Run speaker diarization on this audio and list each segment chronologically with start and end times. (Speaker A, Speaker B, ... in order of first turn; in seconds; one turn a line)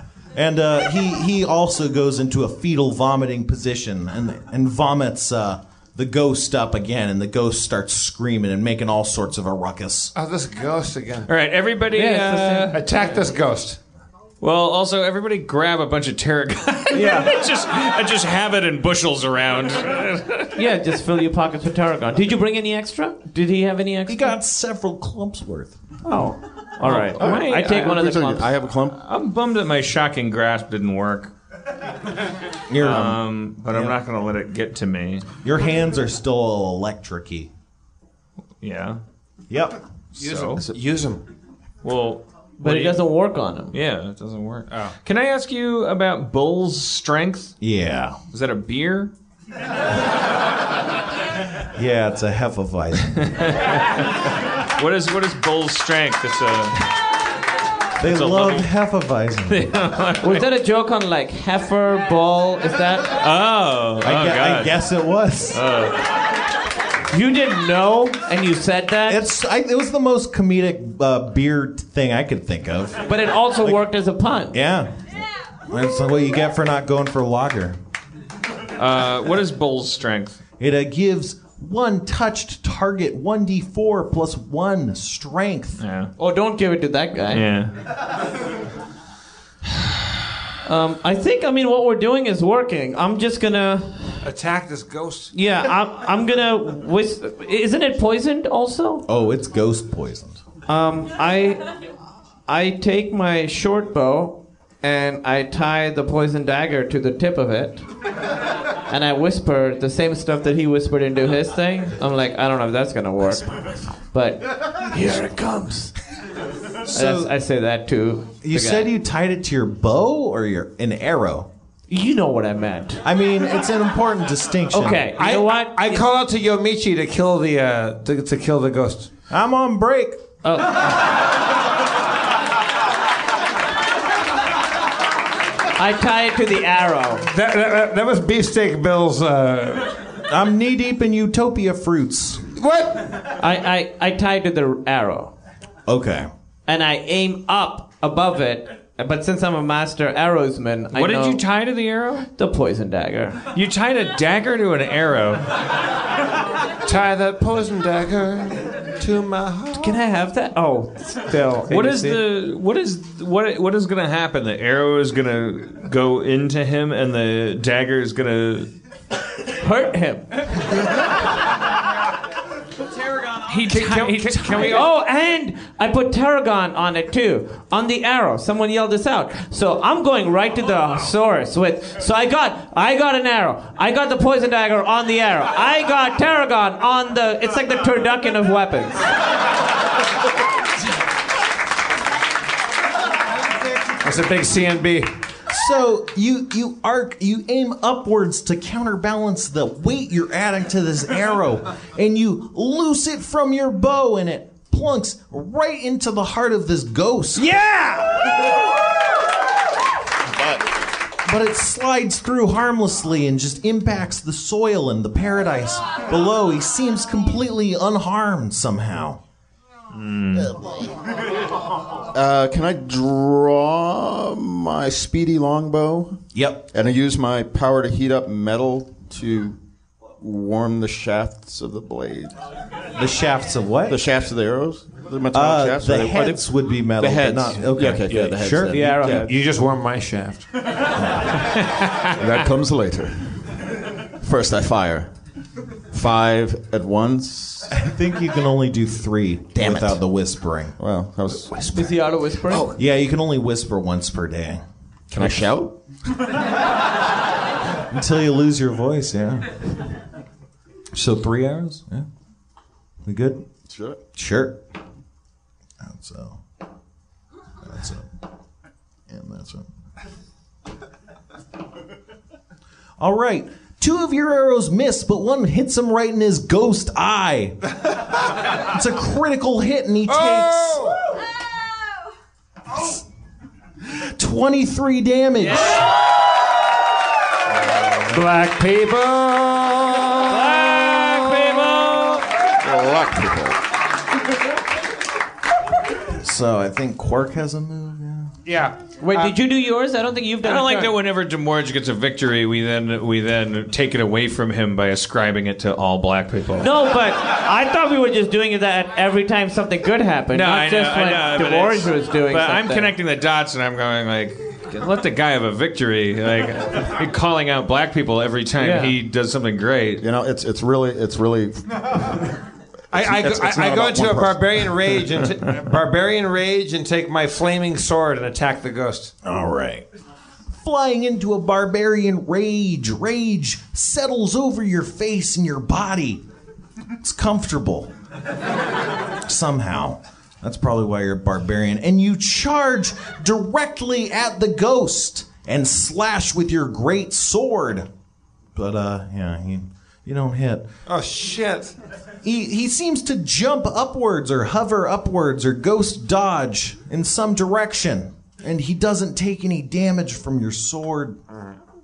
Speaker A: 0.3-10.1
Speaker B: 10.1-11.3
Speaker C: 11.3-12.8
Speaker D: 11.9-12.8
Speaker B: 12.7-13.8
Speaker C: 14.4-20.5
Speaker D: 16.9-17.4
Speaker D: 20.6-24.3
Speaker A: 24.1-25.8
Speaker D: 26.0-28.5
Speaker C: 26.8-28.0
Speaker E: 27.2-29.0
Speaker C: 29.0-31.3
Speaker A: 32.7-33.9
Speaker C: 32.8-35.2
Speaker A: 35.4-37.5
Speaker C: 38.6-39.0
Speaker A: 39.5-39.8
Speaker B: 40.2-41.2
Speaker C: 40.2-40.6
Speaker C: 41.8-43.0
Speaker D: 42.6-43.7
Speaker C: 43.7-47.6
Speaker A: 47.6-48.2
Speaker C: 48.3-49.1
Speaker A: 51.7-53.4
Speaker C: 53.1-56.9
Speaker A: 58.0-59.7
Speaker C: 58.0-58.7
Speaker C: 59.5-60.5
Speaker D: 60.2-63.2
Speaker C: 63.2-64.8
Speaker A: 64.0-65.6
Speaker C: 65.5-66.0
Speaker D: 67.1-69.3
Speaker A: 69.1-73.0
Speaker D: 73.0-74.6
Speaker A: 74.5-75.1
Speaker A: 75.7-77.8
Speaker C: 78.8-80.4
Speaker A: 80.6-85.8
Speaker C: 85.8-86.1
Speaker D: 86.2-87.5
Speaker C: 87.3-87.7
Speaker D: 90.6-94.2
Speaker B: 94.2-95.3
Speaker D: 95.3-99.0
Speaker A: 99.1-100.4
Speaker D: 100.7-101.7
Speaker D: 102.5-107.8
Speaker D: 108.9-115.9
Speaker A: 116.9-117.3
Speaker D: 116.9-118.9
Speaker A: 118.4-121.5
Speaker D: 121.9-123.0
Speaker A: 123.0-125.1
Speaker D: 124.7-126.0
Speaker B: 125.1-129.1
Speaker A: 129.3-130.3
Speaker D: 130.4-130.9
Speaker D: 135.8-137.2
Speaker B: 137.2-140.0
Speaker A: 140.3-142.4
Speaker B: 142.6-143.3
Speaker D: 143.4-145.3
Speaker A: 145.9-146.3
Speaker D: 146.7-151.4
Speaker C: 150.9-152.3
Speaker D: 152.3-153.4
Speaker C: 153.5-155.4
Speaker B: 156.8-160.0
Speaker D: 159.7-162.2
Speaker C: 161.7-168.7
Speaker D: 169.6-170.4
Speaker C: 173.4-174.8
Speaker B: 173.7-174.9
Speaker D: 174.5-189.1
Speaker B: 194.0-195.1
Speaker A: 195.5-207.6
Speaker D: 207.5-208.2
Speaker A: 211.2-219.2
Speaker C: 219.9-220.6
Speaker E: 222.1-226.2
Speaker A: 226.3-226.7
Speaker E: 226.7-229.6
Speaker E: 230.2-232.3
Speaker A: 232.9-234.0
Speaker E: 233.9-236.4
Speaker A: 235.3-239.0
Speaker E: 237.0-239.3
Speaker D: 238.7-239.3
Speaker B: 239.0-240.5
Speaker A: 240.9-241.3
Speaker E: 242.2-243.5
Speaker E: 244.2-245.1
Speaker E: 245.9-247.7
Speaker A: 247.7-250.8
Speaker E: 249.6-249.9
Speaker E: 250.8-251.6
Speaker A: 251.3-252.0
Speaker D: 251.7-252.8
Speaker E: 252.5-252.7
Speaker A: 252.8-254.6
Speaker E: 255.1-255.8
Speaker A: 257.9-259.7
Speaker A: 261.0-262.1
Speaker A: 263.0-263.4
Speaker E: 263.6-264.0
Speaker A: 264.1-264.6
Speaker A: 265.8-266.4
Speaker A: 267.6-268.1
Speaker A: 269.1-269.6
Speaker A: 273.0-277.6
Speaker A: 278.7-280.9
Speaker B: 280.1-281.0
Speaker A: 284.1-285.8
Speaker B: 288.1-290.5
Speaker D: 290.3-292.2
Speaker C: 290.4-292.2
Speaker E: 292.6-293.6
Speaker A: 296.2-298.3
Speaker B: 298.4-299.3
Speaker D: 299.0-301.0
Speaker C: 300.4-306.7
Speaker D: 306.6-312.9
Speaker C: 310.3-320.0
Speaker D: 318.6-318.9
Speaker E: 320.0-322.1
Speaker B: 322.9-329.1
Speaker E: 322.9-324.7
Speaker A: 329.2-329.9
Speaker A: 330.5-336.2
Speaker A: 337.0-337.9
Speaker A: 339.2-347.9
Speaker A: 348.5-350.7
Speaker B: 350.9-351.7
Speaker A: 352.2-361.2